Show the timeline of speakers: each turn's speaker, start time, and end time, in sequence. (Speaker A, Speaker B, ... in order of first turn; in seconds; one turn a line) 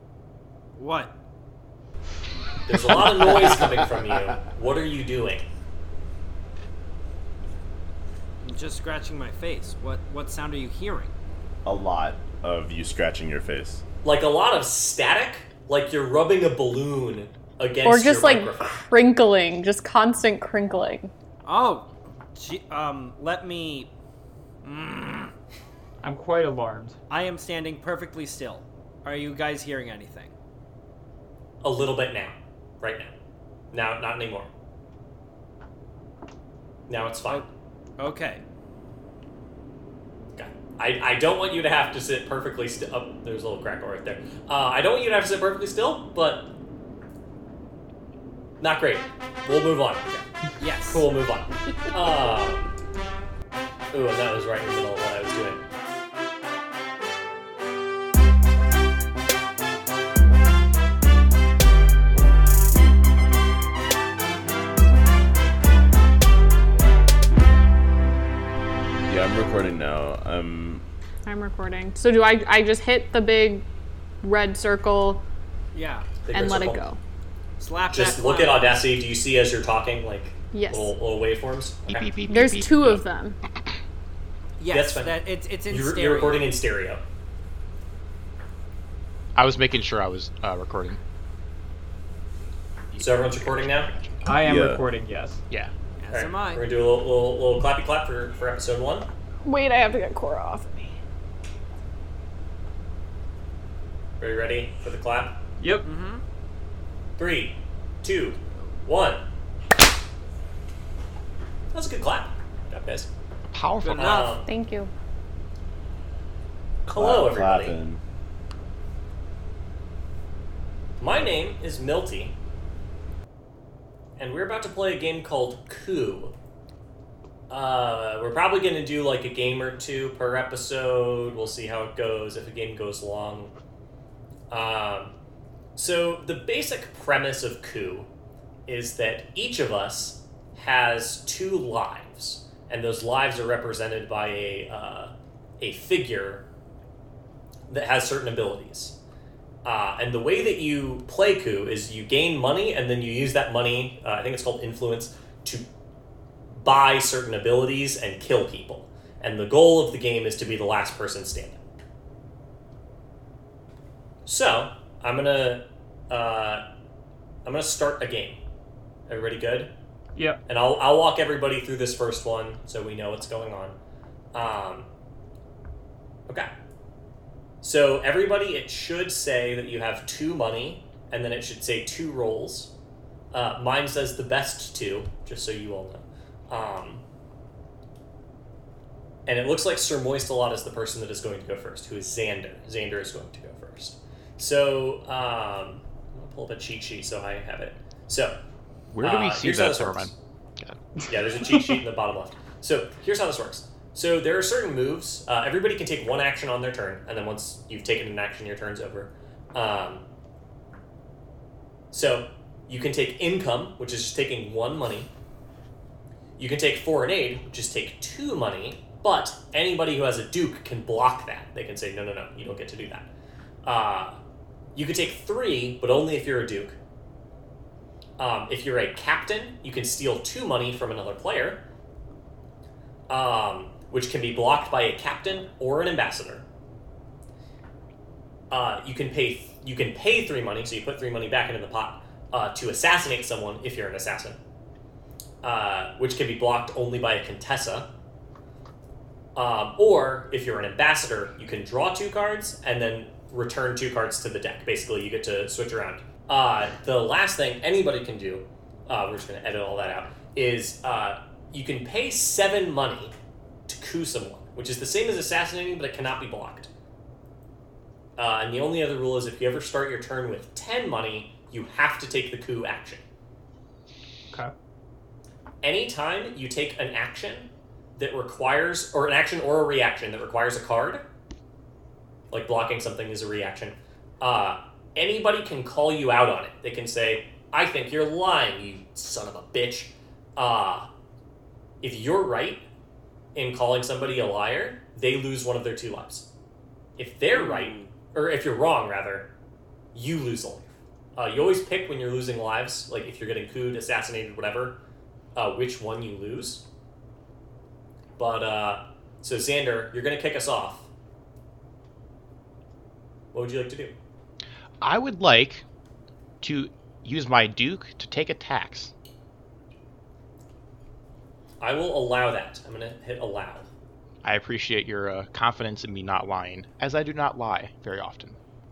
Speaker A: 0.8-1.1
Speaker B: 2.7-5.5
Speaker C: 3.4-3.8
Speaker A: 8.4-11.1
Speaker C: 11.7-13.8
Speaker B: 14.0-18.8
Speaker D: 17.9-21.1
Speaker A: 21.4-23.9
Speaker A: 24.6-25.3
Speaker E: 26.0-27.0
Speaker A: 27.1-30.3
Speaker B: 31.6-33.1
Speaker B: 33.7-34.5
Speaker B: 36.9-37.5
Speaker A: 38.0-38.4
Speaker B: 40.4-46.5
Speaker B: 48.6-50.0
Speaker A: 50.1-51.1
Speaker B: 50.9-52.7
Speaker B: 53.9-55.6
Speaker C: 69.0-70.8
Speaker D: 71.3-73.7
Speaker D: 74.2-75.2
Speaker A: 75.7-76.2
Speaker B: 76.2-76.8
Speaker D: 76.3-77.0
Speaker A: 77.6-78.8
Speaker B: 77.9-82.1
Speaker D: 80.5-80.9
Speaker F: 81.9-83.0
Speaker D: 82.3-83.4
Speaker A: 84.6-86.5
Speaker B: 84.7-85.2
Speaker B: 85.7-87.0
Speaker F: 89.3-91.0
Speaker F: 92.9-94.2
Speaker B: 93.0-93.9
Speaker E: 94.2-95.4
Speaker C: 94.4-94.8
Speaker A: 96.0-96.7
Speaker B: 96.1-99.1
Speaker D: 99.4-101.0
Speaker B: 104.2-105.4
Speaker E: 105.6-105.9
Speaker A: 105.8-106.2
Speaker B: 107.2-109.2
Speaker B: 111.7-113.1
Speaker F: 113.5-114.3
Speaker A: 113.8-114.4
Speaker B: 113.9-114.5
Speaker D: 114.5-114.9
Speaker C: 116.9-118.0
Speaker B: 116.9-117.8
Speaker B: 121.0-122.4
Speaker B: 124.2-126.4
Speaker B: 127.5-133.5
Speaker B: 134.5-135.1
Speaker B: 135.8-138.1
Speaker B: 138.7-146.4
Speaker B: 147.7-149.0
Speaker B: 149.6-155.7
Speaker B: 156.5-161.6
Speaker B: 164.3-166.6
Speaker B: 167.4-168.4
Speaker B: 169.1-169.7
Speaker E: 170.2-170.4
Speaker B: 170.5-173.8
Speaker B: 174.3-174.9
Speaker B: 177.6-182.7
Speaker B: 183.3-187.0
Speaker B: 189.3-198.4
Speaker F: 198.9-200.8
Speaker B: 199.0-200.1
Speaker B: 201.1-210.0
Speaker B: 211.9-215.1
Speaker B: 216.4-223.1
Speaker B: 223.6-224.2
Speaker B: 224.8-226.8
Speaker B: 228.2-231.6
Speaker B: 233.1-236.5
Speaker B: 238.5-244.4
Speaker B: 245.4-247.9
Speaker B: 249.4-263.1
Speaker B: 263.7-266.7
Speaker B: 268.2-273.0
Speaker B: 275.6-281.1
Speaker B: 282.3-290.9
Speaker B: 291.8-292.6
Speaker B: 293.4-296.3
Speaker B: 297.0-299.3
Speaker A: 297.3-297.9
Speaker B: 299.9-304.8
Speaker B: 305.4-306.6
Speaker B: 308.2-310.9
Speaker B: 313.3-314.0
Speaker F: 314.8-315.6
Speaker F: 316.4-318.9
Speaker B: 321.6-323.7
Speaker F: 324.2-328.4